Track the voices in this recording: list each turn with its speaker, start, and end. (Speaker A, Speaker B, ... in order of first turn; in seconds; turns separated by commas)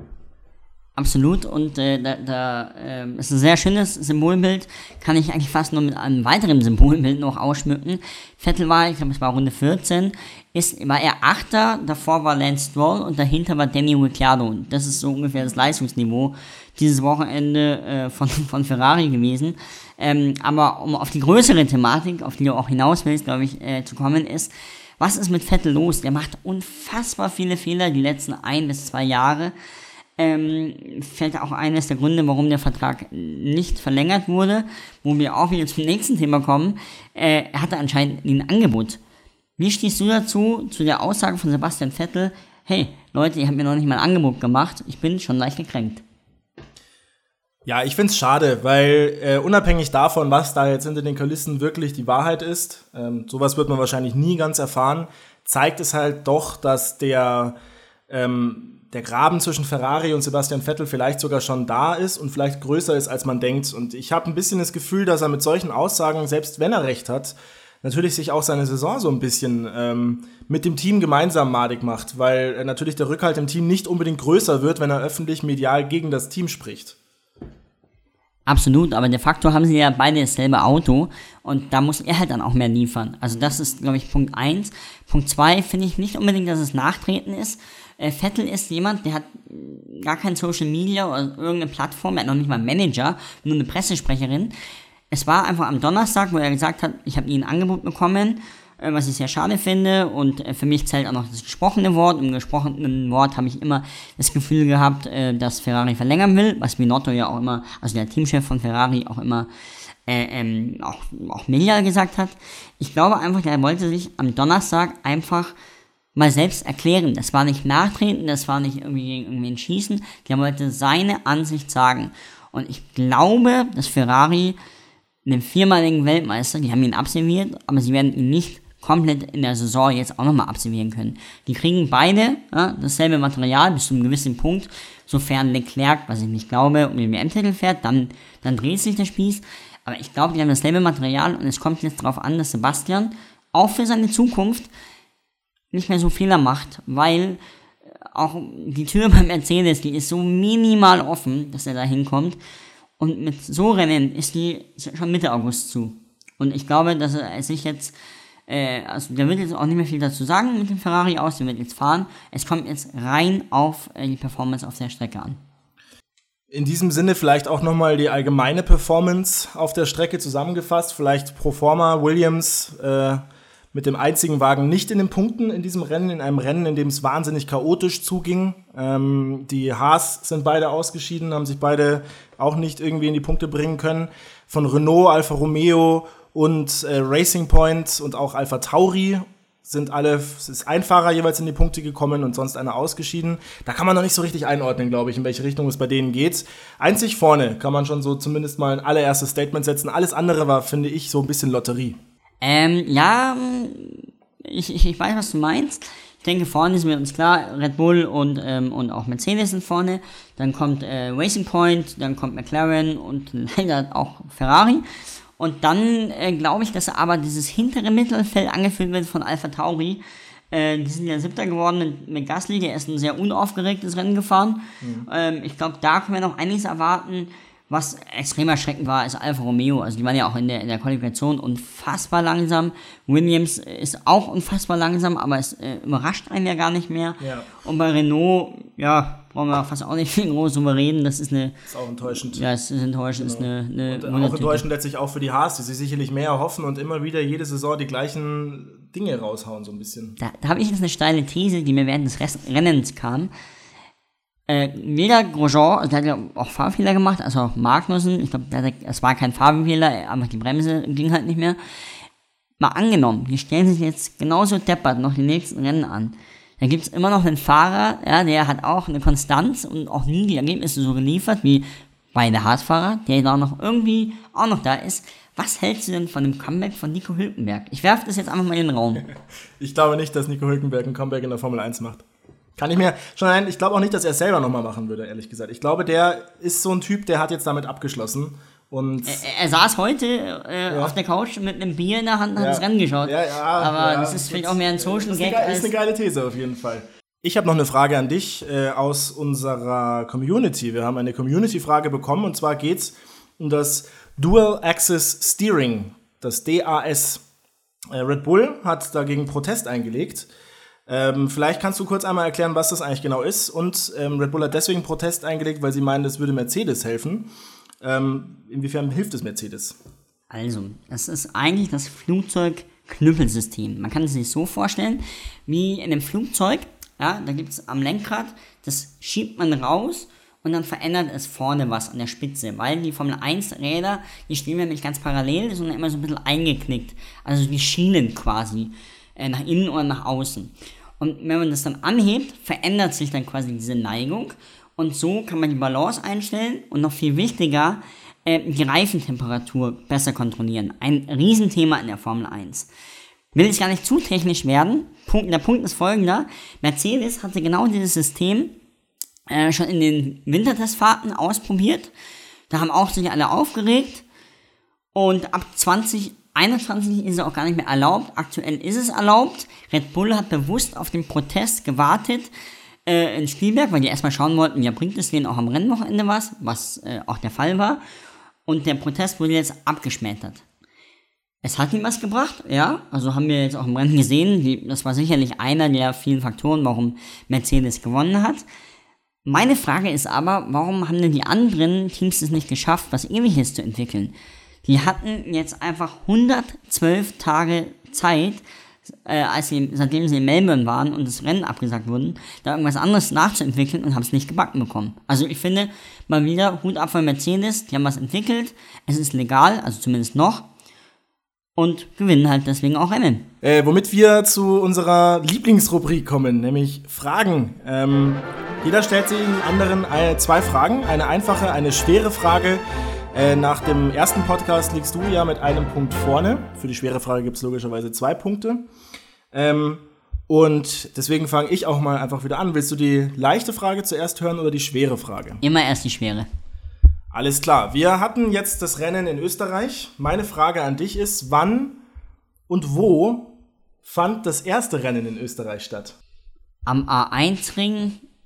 Speaker A: 1.0-29.6, Speaker A: 30.2-39.0, Speaker A: 39.6-46.0, Speaker B: 47.7-57.5, Speaker B: 58.1-77.0, Speaker A: 78.5-94.5, Speaker A: 95.1-109.5, Speaker A: 110.1-115.5, Speaker A: 116.2-124.6, Speaker A: 125.2-144.7, Speaker A: 145.7-147.4, Speaker A: 148.0-152.4, Speaker A: 153.0-157.9, Speaker A: 158.5-165.4, Speaker B: 166.5-173.2, Speaker B: 173.7-202.0, Speaker A: 202.4-214.8, Speaker A: 215.4-241.6, Speaker B: 224.8-225.1, Speaker B: 237.2-237.5, Speaker B: 241.7-242.4, Speaker A: 242.3-244.6, Speaker B: 243.2-250.2, Speaker A: 250.2-253.3, Speaker A: 254.5-261.6, Speaker A: 262.6-279.1, Speaker B: 279.6-282.0, Speaker B: 282.6-289.2, Speaker A: 289.1-295.7, Speaker B: 290.7-290.9, Speaker B: 292.4-307.2, Speaker B: 307.9-310.3, Speaker B: 310.9-317.3, Speaker B: 317.8-319.8, Speaker A: 320.3-352.7, Speaker A: 353.3-358.6, Speaker A: 359.3-361.9, Speaker A: 362.5-364.1, Speaker A: 364.9-372.3, Speaker A: 372.9-377.8, Speaker A: 378.5-380.4, Speaker A: 381.4-388.4, Speaker A: 389.2-394.1, Speaker A: 394.6-410.5, Speaker A: 411.6-413.3, Speaker B: 413.4-422.6, Speaker B: 423.1-428.6, Speaker B: 429.3-435.4, Speaker A: 435.4-436.3, Speaker B: 437.1-441.8, Speaker B: 442.5-446.0, Speaker A: 446.7-448.0